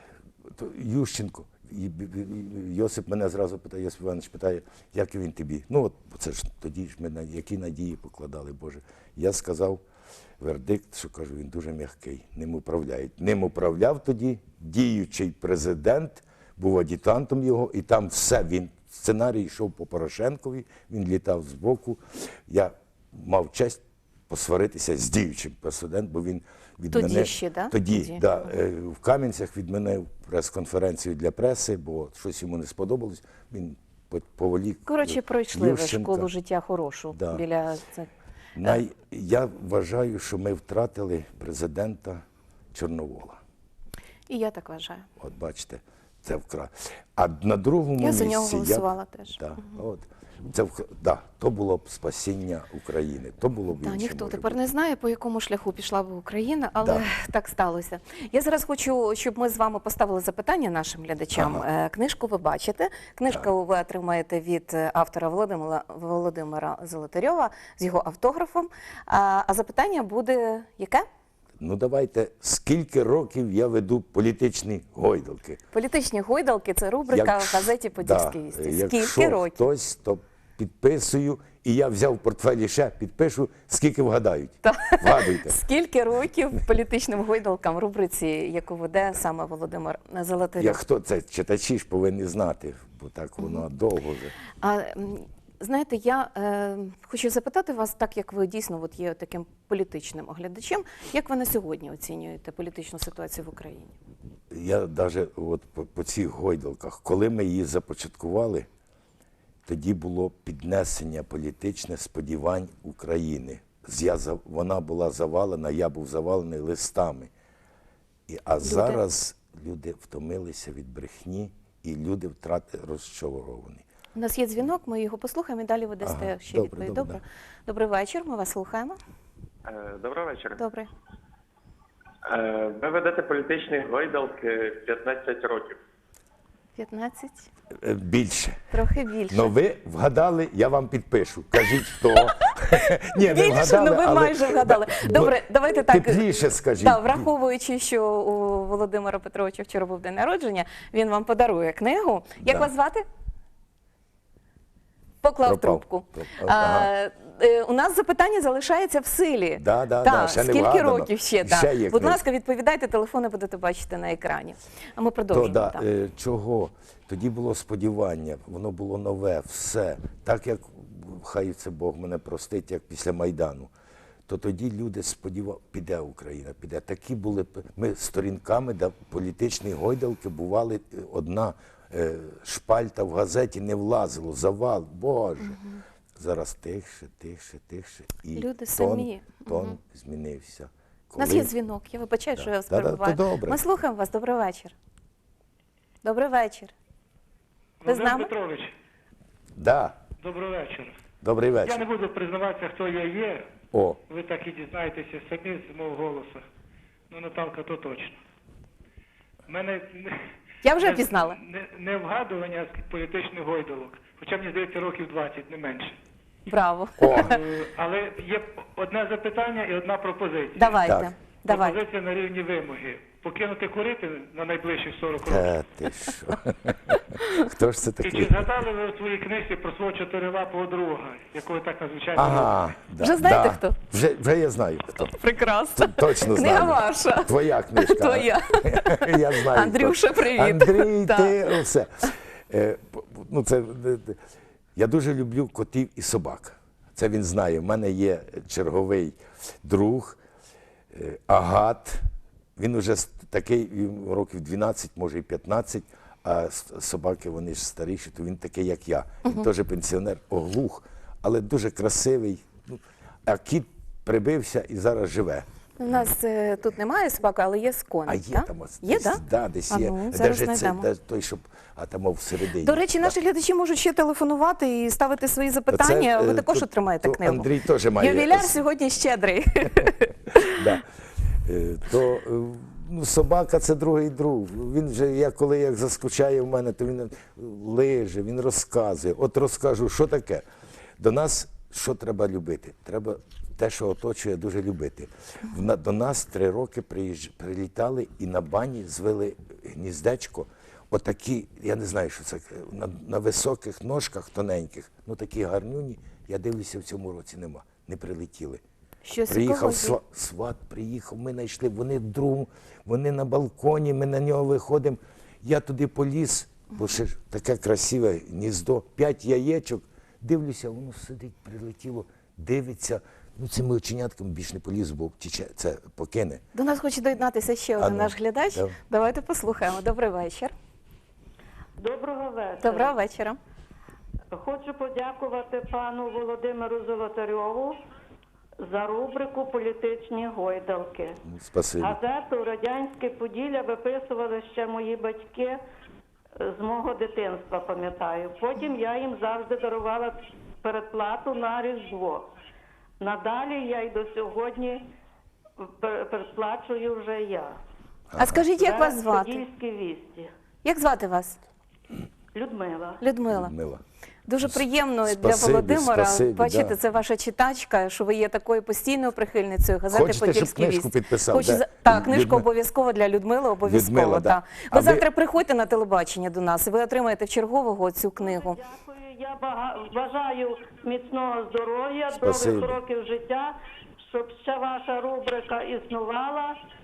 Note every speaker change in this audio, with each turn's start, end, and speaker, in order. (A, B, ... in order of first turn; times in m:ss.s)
0:00.5-0:09.8 A
0:10.4-0:36.3 A
0:26.9-0:28.3 B
0:34.9-0:38.1 B
0:37.1-0:37.4 A
0:38.6-0:43.4 A
0:44.3-0:45.1 B
0:45.2-0:54.6 A
0:48.0-0:49.7 B
0:53.8-1:11.0 B
0:56.8-0:57.1 A
1:01.3-1:01.7 A
1:11.6-1:15.6 A
1:15.7-1:19.7 B
1:17.1-1:25.6 A
1:24.6-1:30.8 B
1:30.6-1:34.4 A
1:33.4-1:33.6 B
1:34.6-1:44.0 B
1:44.5-1:48.7 A
1:49.7-1:57.3 A
1:58.3-2:03.8 A
1:58.6-1:59.0 B
2:04.2-2:09.0 B
2:06.0-2:07.2 A
2:09.7-2:10.6 C
2:10.6-2:10.9 B
2:12.3-2:15.8 C
2:16.8-2:17.5 B
2:17.8-2:18.7 A
2:18.7-2:19.5 B
2:19.3-2:27.3 A
2:23.2-2:33.0 B
2:32.4-2:32.7 A
2:35.2-2:45.8 B
2:35.4-2:36.9 A
2:39.6-2:42.2 A
2:45.3-2:53.7 A
2:54.3-3:05.6 A
3:05.4-3:05.8 B
3:06.2-3:11.5 A
3:08.3-3:09.8 B
3:11.2-3:14.7 B
3:12.4-3:13.6 A
3:16.0-3:16.7 B
3:17.8-3:18.7 D
3:17.9-3:18.3 B
3:19.6-3:20.0 A
3:20.2-3:21.0 D
3:21.2-3:21.8 A
3:21.7-3:23.5 D
3:23.7-3:24.0 A
3:24.1-3:26.4 D
3:27.1-3:28.2 D
3:29.5-3:30.2 D
3:30.6-3:31.4 B
3:30.8-3:36.0 D
3:36.5-3:37.4 B
3:37.0-3:37.3 A
3:37.1-3:40.8 D
3:40.6-3:41.8 B
3:40.8-3:41.1 A
3:41.5-3:45.5 D
3:45.2-3:48.5 A
3:48.0-3:52.6 D
3:52.1-3:55.2 A
3:53.0-3:53.8 B
3:55.0-4:01.6 B
3:55.8-4:04.2 A
4:04.8-4:10.2 A
4:10.9-4:12.1 A
4:12.6-4:26.1 A
4:25.8-4:30.9 B
4:28.1-4:33.2 A
4:32.6-4:40.6 B
4:35.7-4:38.6 A
4:40.5-4:40.8 A
4:41.4-4:50.4 A
4:51.0-5:08.6 A
5:09.0-5:10.0 B
5:09.3-5:26.4 A
5:26.5-5:30.5 B
5:27.8-5:28.8 A
5:31.8-5:32.9 E
5:32.6-5:33.4 B
5:34.3-5:37.8 E
5:38.6-5:41.2 E
5:41.2-5:42.0 A
5:41.8-5:45.6 E
5:46.4-5:52.3 E
5:53.0-5:54.8 E
5:55.6-5:57.6 E
5:58.1-5:58.5 A
5:58.2-5:59.4 B
5:58.6-6:00.3 E
6:00.6-6:01.4 B
6:02.4-6:03.0 E
6:03.0-6:03.5 B
6:03.3-6:03.8 A
6:04.3-6:18.6 B
6:05.0-6:06.8 A
6:09.9-6:12.5 A
6:13.6-6:15.0 A
6:18.2-6:26.6 E
6:22.2-6:22.8 A